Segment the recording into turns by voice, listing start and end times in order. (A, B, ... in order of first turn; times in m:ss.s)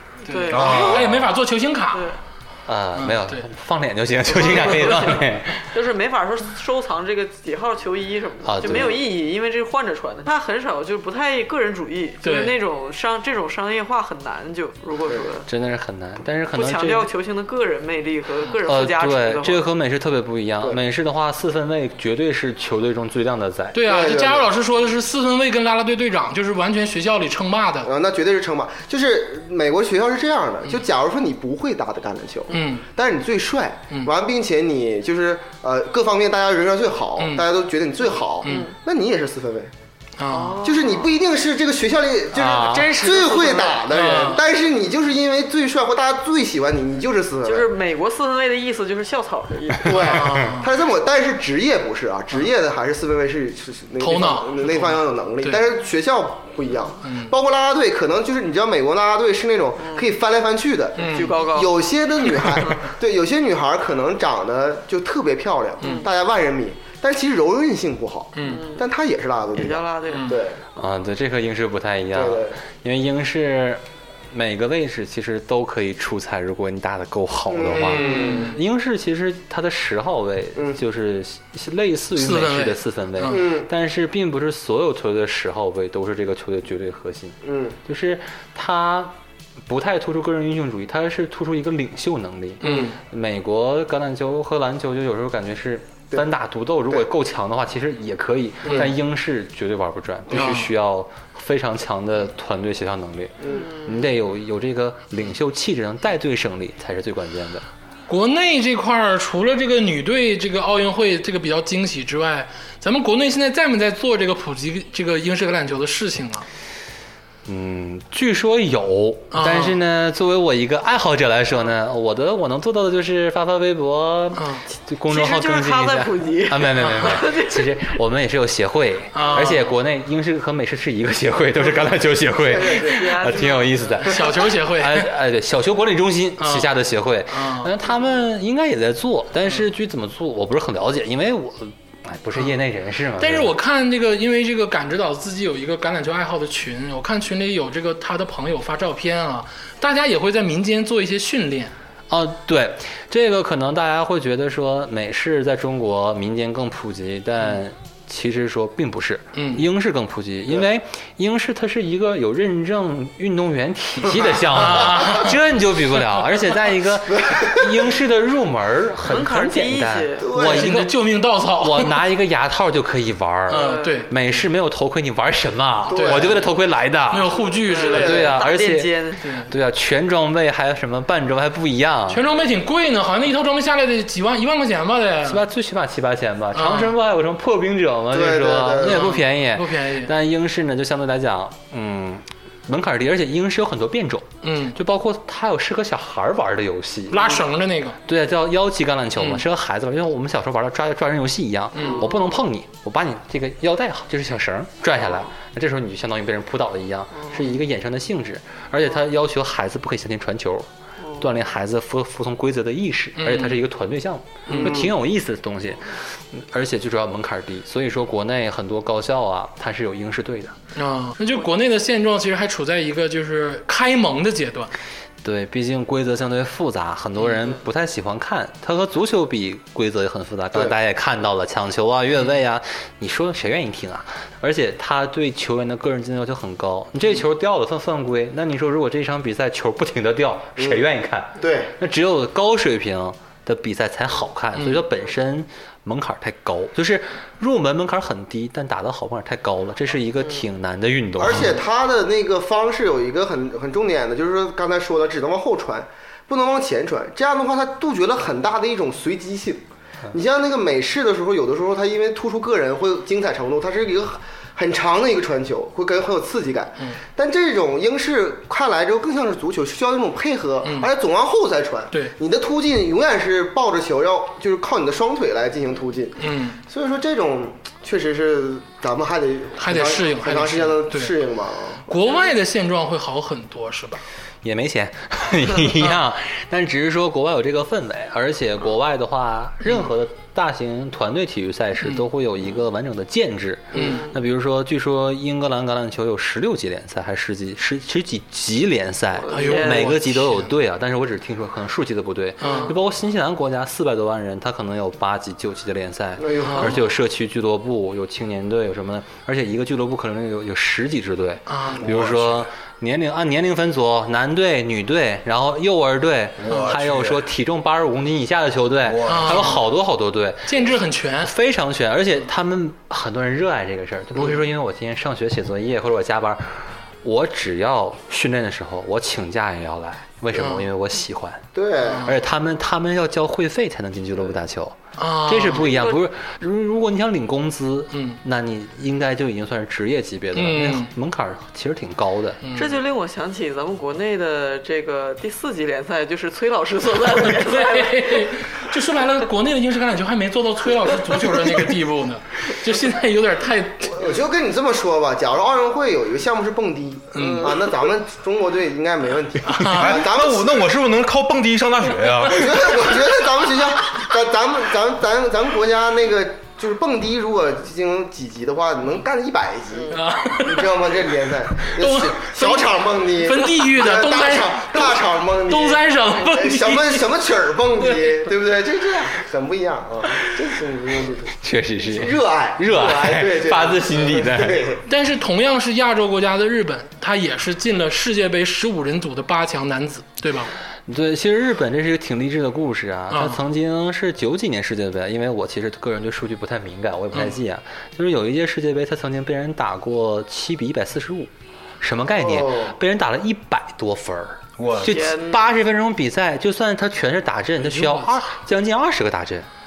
0:00.3-0:01.2 A
0:00.3-0:02.1 B
0:00.5-0:01.2 C
0:02.7-0:05.7 D
0:03.0-0:03.5 B
0:04.3-0:15.5 A
0:08.4-0:09.0 D
0:12.2-0:12.5 B
0:15.4-0:17.1 D
0:16.5-0:19.6 A
0:18.6-0:23.8 D
0:23.7-0:27.9 B
0:23.8-0:24.5 E
0:27.8-0:39.7 E
0:32.5-0:32.8 B
0:37.2-0:37.4 B
0:38.4-0:38.7 A
0:40.2-0:40.6 B
0:40.3-0:41.1 A
0:40.6-0:47.7 E
0:42.3-0:43.0 D
0:42.5-0:43.9 A
0:43.9-0:44.4 B
0:47.4-0:50.2 A
0:49.8-1:10.6 E
0:50.0-0:50.7 B
0:54.0-0:55.6 B
0:57.0-0:57.3 B
0:59.8-1:00.1 A
1:01.0-1:01.3 B
1:01.0-1:01.8 A
1:05.8-1:06.1 B
1:05.8-1:06.1 A
1:08.4-1:08.6 B
1:08.4-1:08.9 A
1:09.5-1:10.4 A
1:10.1-1:10.4 B
1:10.8-1:29.1 D
1:12.1-1:12.6 E
1:17.5-1:18.5 E
1:17.7-1:18.5 B
1:18.0-1:18.6 A
1:22.2-1:23.4 B
1:23.3-1:23.7 E
1:27.4-1:27.8 E
1:29.7-1:47.6 D
1:32.6-1:33.0 B
1:40.3-1:40.7 B
1:43.4-1:43.7 E
1:43.6-1:43.8 A
1:48.1-1:56.4 B
1:57.4-2:23.5 D
1:59.3-1:59.8 B
2:04.4-2:04.6 B
2:05.1-2:07.9 A
2:06.8-2:07.2 B
2:09.1-2:09.7 B
2:12.5-2:13.1 E
2:12.6-2:14.0 A
2:14.0-2:15.1 B
2:16.4-2:16.7 B
2:17.3-2:17.7 B
2:23.2-2:31.7 B
2:32.1-2:50.9 D
2:39.4-2:39.6 B
2:44.5-2:45.4 B
2:47.1-2:47.7 E
2:49.0-2:50.3 A
2:50.2-2:50.7 E
2:50.4-2:52.0 B
2:51.6-2:58.9 D
2:53.5-2:54.1 B
2:53.5-2:54.1 A
2:55.9-2:56.3 B
2:55.9-2:56.4 E
2:57.1-2:58.3 B
2:57.7-2:59.2 A
2:57.8-2:58.3 E
2:59.2-2:59.5 B
2:59.5-3:02.2 D
3:02.1-3:05.4 B
3:05.2-3:17.4 D
3:06.5-3:07.0 B
3:08.1-3:09.1 E
3:08.8-3:10.1 B
3:14.4-3:14.8 B
3:17.1-3:18.0 B
3:18.1-3:30.7 D
3:21.7-3:22.0 B
3:21.9-3:22.4 A
3:27.1-3:27.5 A
3:31.2-3:40.6 D
3:33.2-3:33.6 B
3:34.4-3:34.9 B
3:34.5-3:34.8 E
3:40.7-3:44.7 B
3:45.2-4:11.6 D
4:00.6-4:00.8 E
4:01.4-4:01.7 E
4:04.6-4:04.8 B
4:11.2-4:41.8 E
4:30.6-4:30.9 B
4:36.2-4:36.6 B
4:39.6-4:41.2 B
4:41.9-4:44.0 B
4:44.4-5:31.5 D
4:53.7-4:54.0 B
4:53.8-4:54.1 A
4:59.2-5:00.0 A
4:59.3-5:00.5 B
5:02.4-5:02.7 B
5:02.4-5:02.7 A
5:06.2-5:06.8 E
5:06.4-5:06.8 B
5:11.5-5:11.9 B
5:11.8-5:12.3 C
5:16.4-5:17.2 C
5:18.9-5:19.6 C
5:19.0-5:19.6 B
5:20.5-5:21.3 B
5:30.4-5:30.6 B
5:31.6-5:32.1 E
5:31.8-5:32.1 B
5:32.0-5:42.4 D
5:35.0-5:35.7 B
5:35.6-5:36.0 A
5:37.9-5:38.2 B
5:40.4-5:40.9 B
5:42.4-5:42.8 B
5:42.5-5:48.3 A
5:47.2-5:54.0 B
5:53.9-6:00.6 E
5:57.1-5:57.5 B
5:59.5-6:00.0 B
5:59.6-6:02.9 C
6:02.2-6:24.8 E
6:09.9-6:10.7 B
6:11.7-6:17.1 B
6:21.4-6:24.7 D
6:24.9-6:30.5 B
6:30.9-6:49.5 D
6:33.1-6:33.4 B
6:42.2-6:42.7 E
6:44.6-6:45.0 C
6:44.8-6:45.4 A
6:47.6-6:48.2 B